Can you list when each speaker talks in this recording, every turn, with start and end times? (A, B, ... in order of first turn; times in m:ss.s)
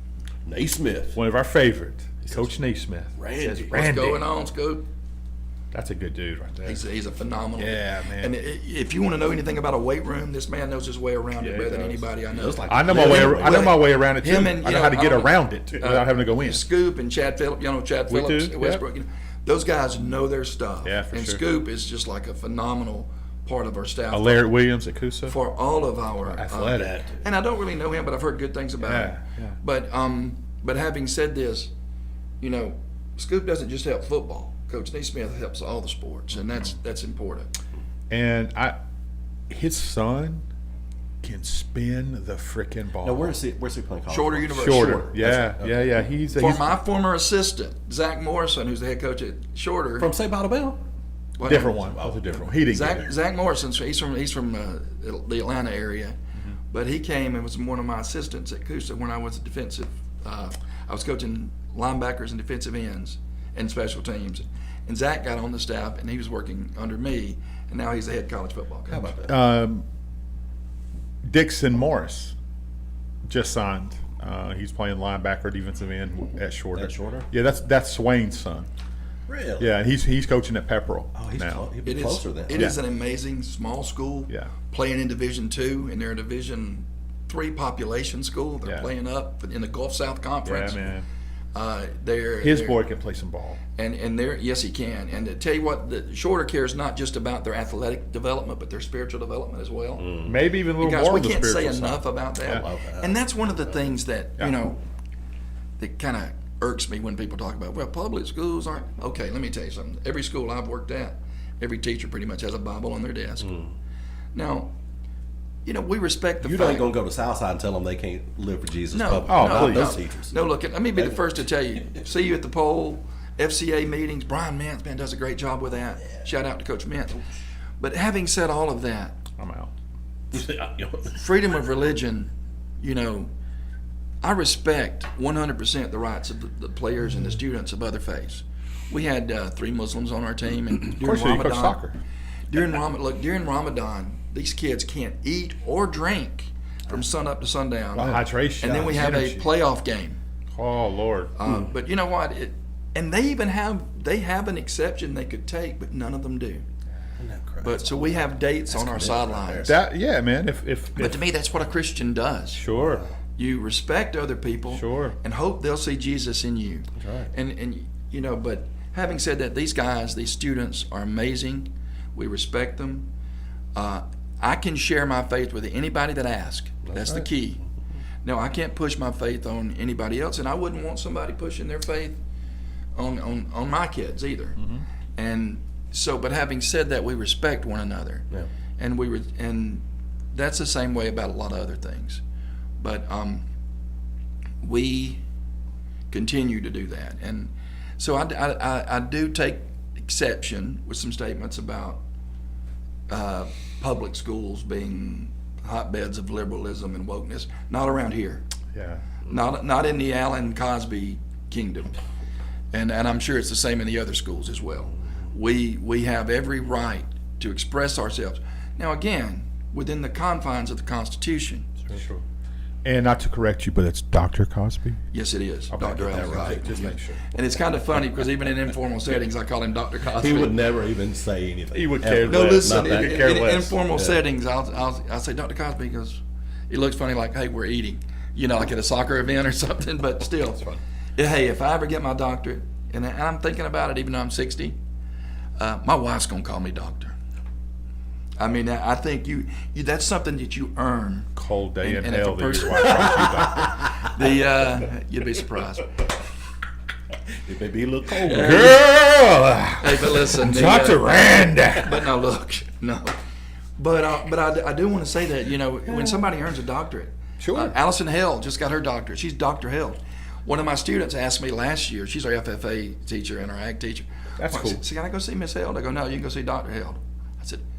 0:00.4-0:01.2 A
0:01.1-0:04.2 B
0:03.2-0:03.8 A
0:03.7-0:04.8 C
0:05.7-0:06.8 B
0:06.6-0:24.5 C
0:07.6-0:08.3 B
0:11.4-0:12.0 B
0:12.3-0:13.8 A
0:12.7-0:16.6 B
0:18.1-0:18.8 B
0:20.8-0:21.4 B
0:24.1-0:25.4 B
0:25.3-0:31.7 C
0:26.3-0:27.0 B
0:28.8-0:29.6 B
0:32.4-0:37.5 C
0:38.1-0:38.7 B
0:39.5-0:40.4 B
0:41.2-0:43.4 B
0:43.0-0:45.9 A
0:44.1-0:45.2 C
0:44.5-0:46.8 B
0:46.3-0:50.1 C
0:50.0-0:50.8 A
0:51.4-0:52.0 C
0:51.4-0:53.0 B
0:51.8-0:52.6 A
0:52.6-0:56.2 C
0:56.7-1:09.2 C
1:08.9-1:09.4 A
1:09.2-1:09.8 B
1:11.2-1:12.3 B
1:13.2-1:18.7 B
1:16.7-1:17.3 A
1:19.3-1:19.7 A
1:19.6-1:21.6 B
1:21.1-1:22.7 A
1:21.8-1:30.9 C
1:30.4-1:31.0 B
1:31.5-1:32.8 C
1:32.4-1:33.6 B
1:33.8-1:40.1 C
1:40.0-1:40.4 A
1:40.2-1:42.6 B
1:40.8-1:44.8 C
1:42.4-1:43.2 A
1:45.8-1:53.6 C
1:54.3-1:54.7 C
1:55.6-1:56.9 C
1:56.4-2:00.3 A
1:58.9-2:07.2 C
1:59.3-2:00.0 B
2:07.8-2:09.2 C
2:09.4-2:09.7 B
2:10.3-2:11.2 A
2:11.1-2:13.3 C
2:14.2-2:21.8 C
2:21.0-2:22.0 B
2:22.5-2:30.2 C
2:27.9-2:29.5 B
2:30.5-2:31.4 B
2:31.4-2:36.6 C
2:37.2-2:39.8 A
2:37.6-2:39.8 C
2:39.6-2:41.2 B
2:41.0-2:42.6 C
2:42.5-2:43.0 B
2:42.7-2:43.1 A
2:43.4-2:53.1 C
2:44.7-2:45.2 B
2:47.0-2:47.3 A
2:53.7-2:57.6 C
2:56.8-2:57.3 A
2:58.2-3:02.2 C
3:03.0-3:04.6 C
3:05.2-3:08.3 C
3:08.8-3:12.2 C
3:12.8-3:13.4 C
3:14.6-3:15.2 C
3:16.1-3:22.0 C
3:23.1-3:28.4 C
3:28.7-3:29.0 B
3:29.2-3:32.0 C
3:32.7-3:41.7 C
3:41.9-3:42.2 B
3:42.8-3:45.0 B
3:45.1-3:50.6 C
3:45.7-3:47.2 B
3:46.1-3:46.9 A
3:50.1-3:53.1 A
3:51.7-3:53.8 B
3:52.2-4:04.8 C
3:53.8-3:54.2 A
4:05.6-4:07.1 C
4:08.4-4:16.0 C
4:11.4-4:13.7 B
4:17.3-4:18.8 A
4:18.2-4:18.9 C
4:18.3-4:22.0 B
4:19.8-4:21.2 C
4:21.7-4:23.2 C
4:23.8-4:37.6 C
4:27.4-4:27.7 B
4:34.4-4:34.8 B